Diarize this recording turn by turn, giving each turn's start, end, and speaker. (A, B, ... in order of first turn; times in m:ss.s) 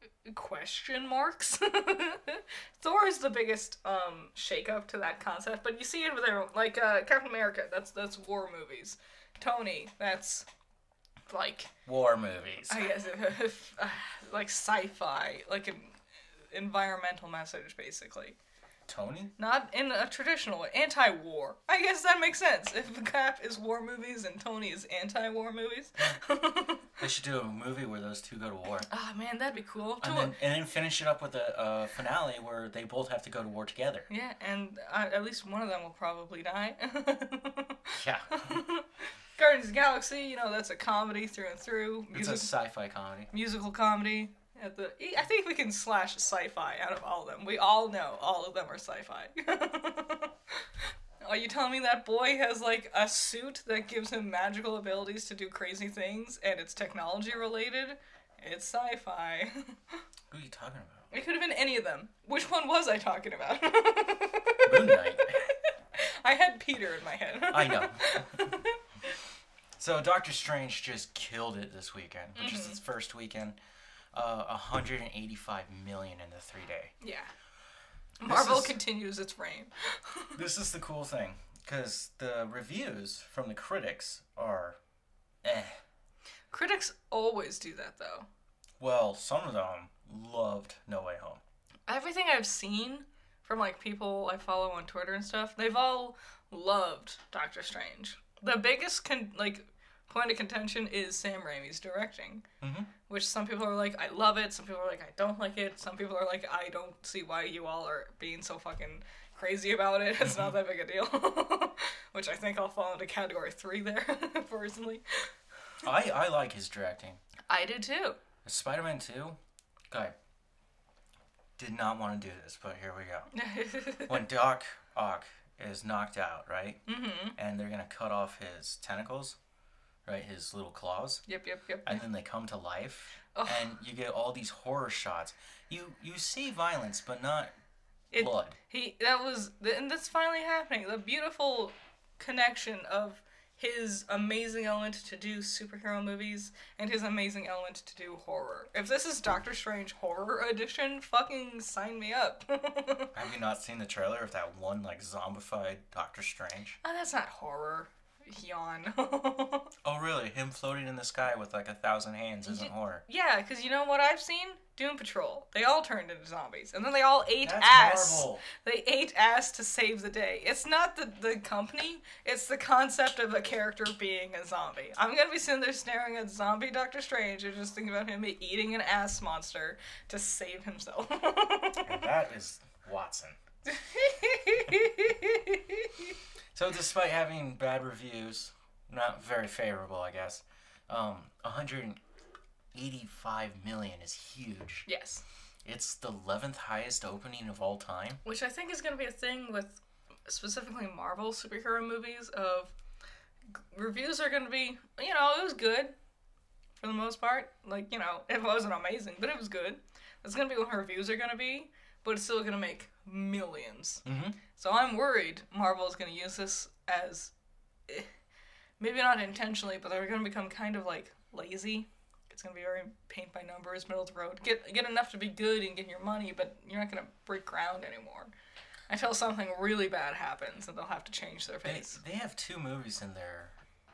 0:00.2-0:10.5 A
0:11.3-0:11.7 A
0:11.9-0:12.8 B
0:12.7-0:16.0 A
0:16.5-0:18.4 A
0:18.9-0:19.3 B
0:19.4-0:27.0 A
0:27.0-0:28.9 B
0:28.9-0:30.4 A
0:30.0-0:34.1 B
0:34.1-0:42.5 A
0:38.0-0:38.6 B
0:42.1-0:43.3 B
0:43.3-0:50.4 A
0:51.2-1:00.0 A
1:00.3-1:01.1 B
1:01.1-1:09.2 A
1:04.6-1:05.4 B
1:07.5-1:08.6 B
1:09.8-1:13.6 B
1:12.4-1:12.8 A
1:14.1-1:16.9 B
1:17.0-1:17.3 A
1:18.2-1:20.4 A
1:18.3-1:18.8 B
1:20.4-1:24.8 B
1:25.4-1:25.8 B
1:26.5-1:28.3 A
1:28.8-1:31.4 B
1:31.9-1:42.5 A
1:42.6-1:42.9 B
1:43.1-1:55.0 A
1:50.2-1:50.6 B
1:55.8-1:57.2 B
1:57.5-1:58.2 A
1:58.4-1:59.4 B
1:59.9-2:00.2 B
2:01.6-2:03.3 B
2:03.3-2:04.2 A
2:04.1-2:06.8 B
2:06.9-2:07.4 A
2:07.4-2:09.4 B
2:10.0-2:11.2 B
2:11.3-2:12.0 A
2:11.8-2:17.5 B
2:13.4-2:13.7 A
2:18.1-2:33.2 A
2:18.1-2:18.6 B
2:33.1-2:36.8 B
2:36.8-2:39.7 A
2:39.8-2:43.0 B
2:42.5-3:02.0 A
2:47.4-2:48.4 B
3:01.8-3:03.4 B
3:03.6-3:06.1 A
3:06.5-3:12.0 B
3:12.7-3:14.9 B
3:14.9-3:15.2 A
3:15.6-3:18.2 B
3:18.2-3:22.7 A
3:23.5-3:26.0 A
3:26.8-3:34.0 A
3:34.0-3:34.4 B
3:34.6-3:37.3 A
3:38.8-3:48.3 A
3:48.9-3:52.0 A
3:51.6-3:53.6 B